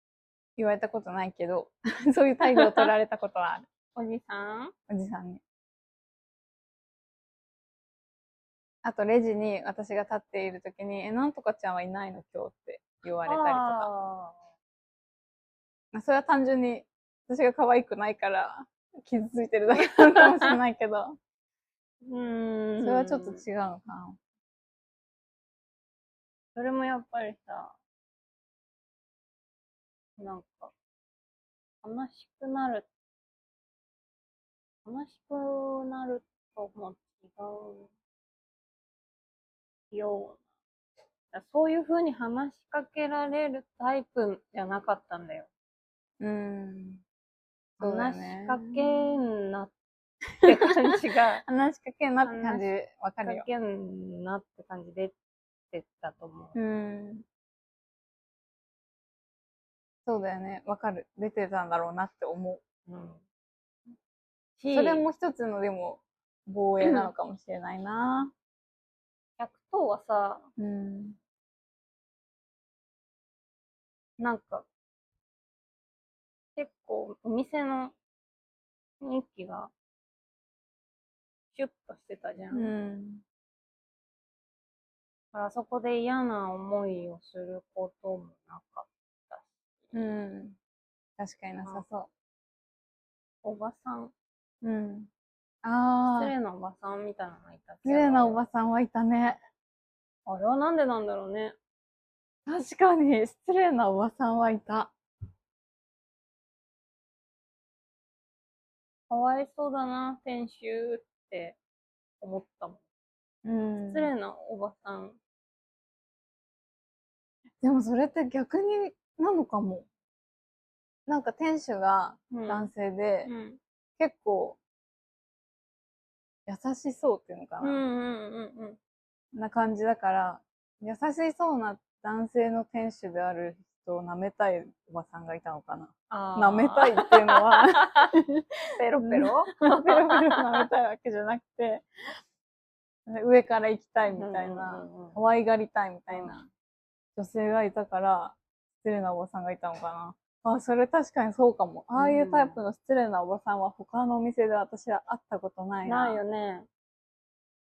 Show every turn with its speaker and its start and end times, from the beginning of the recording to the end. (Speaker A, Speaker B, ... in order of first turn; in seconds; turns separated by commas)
Speaker A: 0.6-3.7, Speaker B: 2.5-2.9, Speaker B: 4.0-4.7, Speaker A: 4.9-5.4, Speaker A: 8.8-13.9, Speaker B: 13.3-14.4, Speaker A: 15.9-21.2, Speaker B: 20.2-20.6, Speaker B: 22.1-23.4, Speaker A: 22.8-24.2, Speaker B: 26.6-27.8, Speaker B: 30.2-30.7, Speaker B: 31.8-32.9, Speaker B: 34.9-37.9, Speaker B: 39.9-40.4, Speaker B: 41.3-45.5, Speaker A: 46.2-47.0, Speaker B: 47.8-49.7, Speaker A: 47.8-48.8, Speaker A: 50.4-50.7, Speaker B: 50.4-51.5, Speaker A: 51.5-53.5, Speaker B: 52.2-52.7, Speaker B: 53.2-55.1, Speaker B: 55.7-56.6, Speaker A: 56.5-57.2, Speaker A: 60.1-62.6, Speaker B: 62.9-63.2, Speaker B: 64.6-65.0, Speaker A: 64.7-68.3, Speaker B: 66.8-67.1, Speaker B: 69.4-70.5, Speaker A: 70.6-71.2, Speaker B: 74.2-74.7, Speaker B: 76.6-78.0, Speaker B: 79.0-79.7, Speaker B: 81.5-82.7, Speaker A: 82.5-83.2, Speaker B: 85.3-89.9, Speaker A: 89.9-90.6, Speaker A: 91.2-92.1, Speaker B: 93.4-94.1, Speaker A: 94.6-95.1, Speaker A: 95.6-96.3, Speaker B: 96.0-98.4, Speaker A: 97.8-99.4, Speaker B: 100.3-101.6, Speaker A: 102.5-104.9, Speaker B: 109.1-111.6, Speaker B: 112.2-112.8, Speaker A: 113.4-114.1, Speaker B: 113.8-115.2, Speaker A: 117.6-119.9, Speaker A: 121.1-123.3, Speaker B: 122.3-122.7, Speaker B: 123.2-123.6, Speaker A: 124.0-124.6, Speaker A: 126.5-127.8, Speaker B: 127.6-128.8, Speaker A: 129.3-138.2, Speaker B: 136.1-137.8, Speaker B: 138.8-140.6, Speaker A: 139.1-141.8, Speaker A: 143.1-146.5, Speaker B: 144.1-145.2, Speaker B: 146.1-146.4, Speaker A: 147.2-156.2, Speaker B: 151.9-152.6, Speaker B: 155.8-156.7